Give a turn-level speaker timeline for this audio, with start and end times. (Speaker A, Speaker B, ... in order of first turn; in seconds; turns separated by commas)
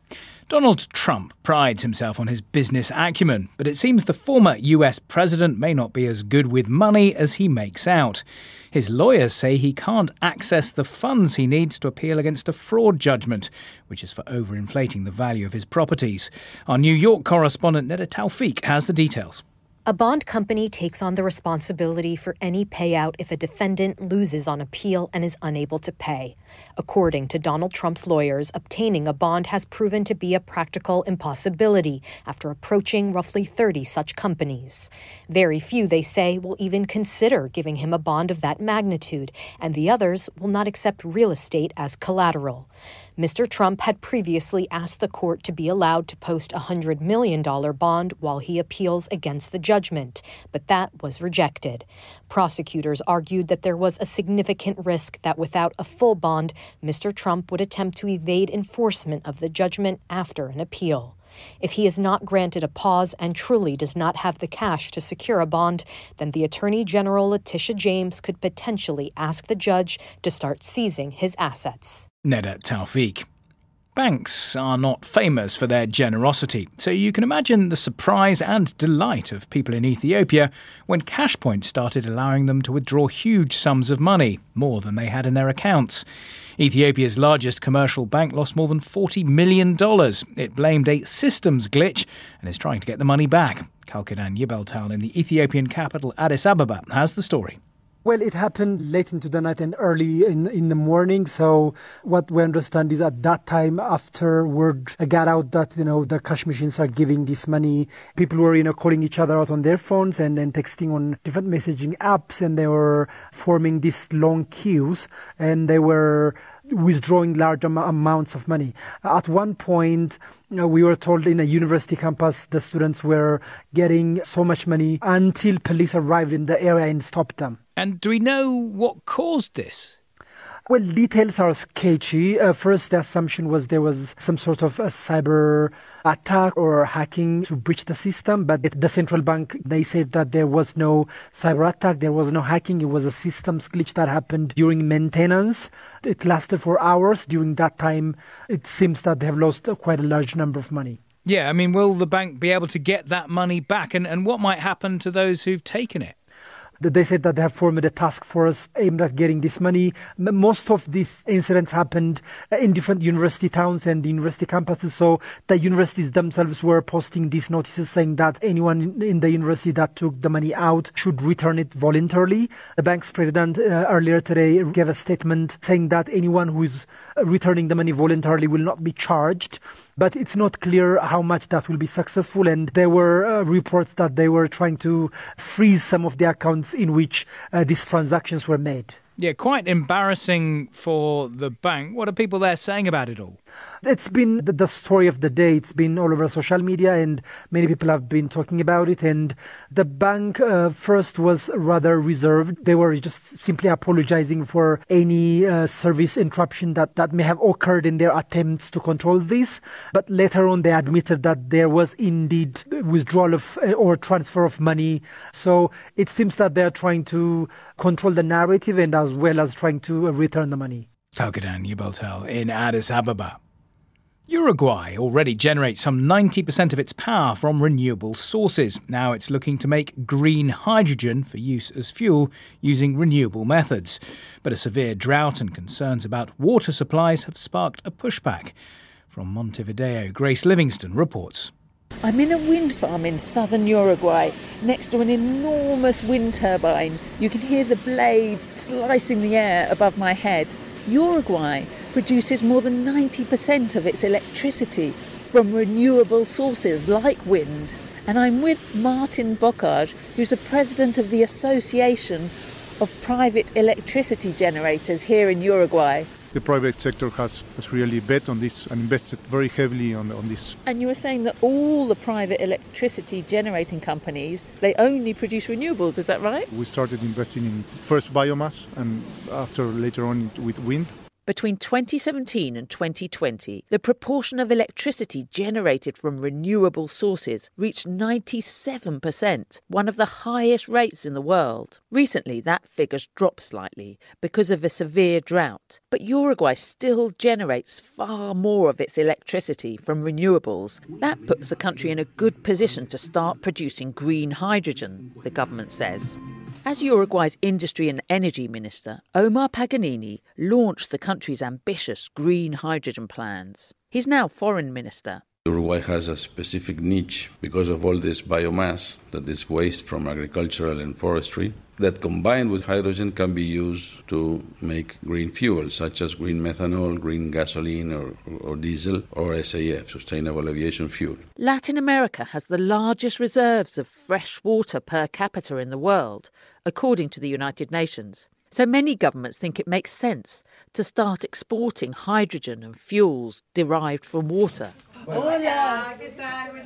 Speaker A: 0.5-19.4, Speaker B: 19.9-72.1, Speaker A: 72.2-73.2, Speaker A: 74.0-86.0, Speaker A: 86.6-97.6, Speaker C: 98.0-127.6, Speaker A: 127.8-129.9, Speaker C: 130.7-151.0, Speaker A: 151.2-156.1, Speaker C: 156.8-189.0, Speaker A: 189.2-193.4, Speaker C: 193.8-220.9, Speaker A: 221.2-223.4, Speaker A: 224.3-238.5, Speaker A: 239.1-241.5, Speaker D: 242.0-266.1, Speaker E: 266.3-270.6, Speaker D: 270.6-276.5, Speaker E: 276.5-281.0, Speaker D: 281.3-315.2, Speaker F: 315.4-331.3, Speaker D: 331.4-344.7